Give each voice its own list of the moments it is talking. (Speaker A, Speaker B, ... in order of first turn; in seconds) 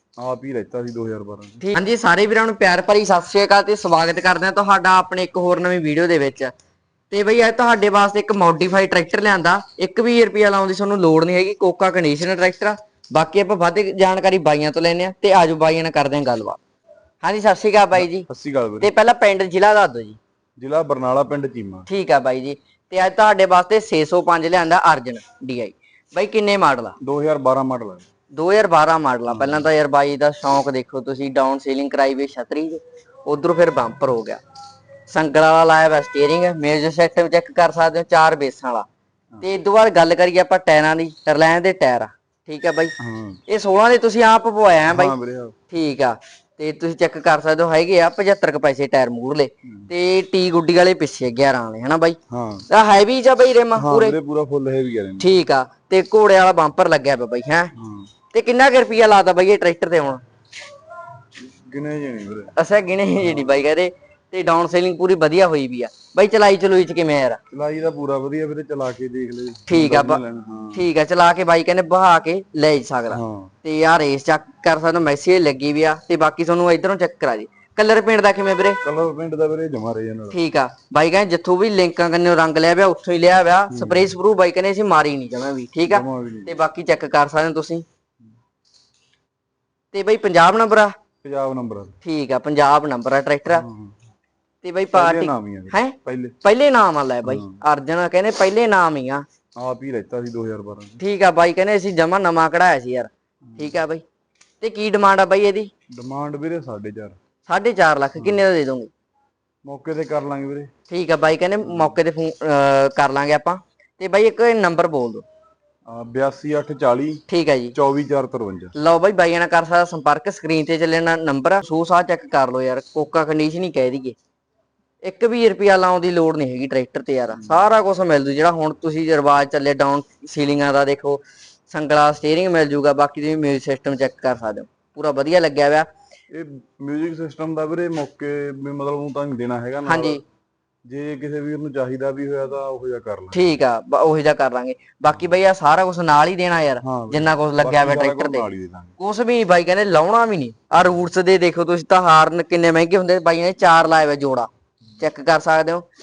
Speaker A: 0.2-1.6, 17.9-18.9, 20.6-21.9, 27.0-28.1, 29.3-29.7, 43.0-43.4, 44.9-45.5, 49.6-49.9, 52.3-52.7, 53.7-55.4, 57.8-58.1, 61.5-62.5, 63.2-63.6, 67.5-70.9, 73.1-73.5, 78.8-80.4, 83.7-84.1, 85.9-86.6, 91.2-92.0, 93.5-93.9, 94.9-96.4, 97.2-97.6, 99.6-101.0, 103.5-103.7, 105.9-107.2, 108.2-108.4, 109.6-110.7, 111.6-112.0, 115.9-117.2, 117.7-118.7, 136.3-140.2, 140.9-143.6, 146.8-149.0
Speaker B: 1.6-6.5, 7.1-16.6, 17.2-18.3, 18.8-20.2, 21.9-26.9, 28.3-34.4, 35.1-38.9, 39.4-42.9, 43.5-45.1, 45.7-52.2, 52.7-54.1, 55.2-57.7, 58.3-60.2, 62.5-67.4, 69.7-70.2, 70.7-78.8, 80.3-87.8, 89.9-90.9, 92.0-93.7, 94.6-99.2, 101.0-104.0, 104.6-105.7, 107.5-108.9, 110.9-115.2, 117.3-117.8, 118.7-124.2, 125.0-135.9, 139.8-140.2, 143.3-155.8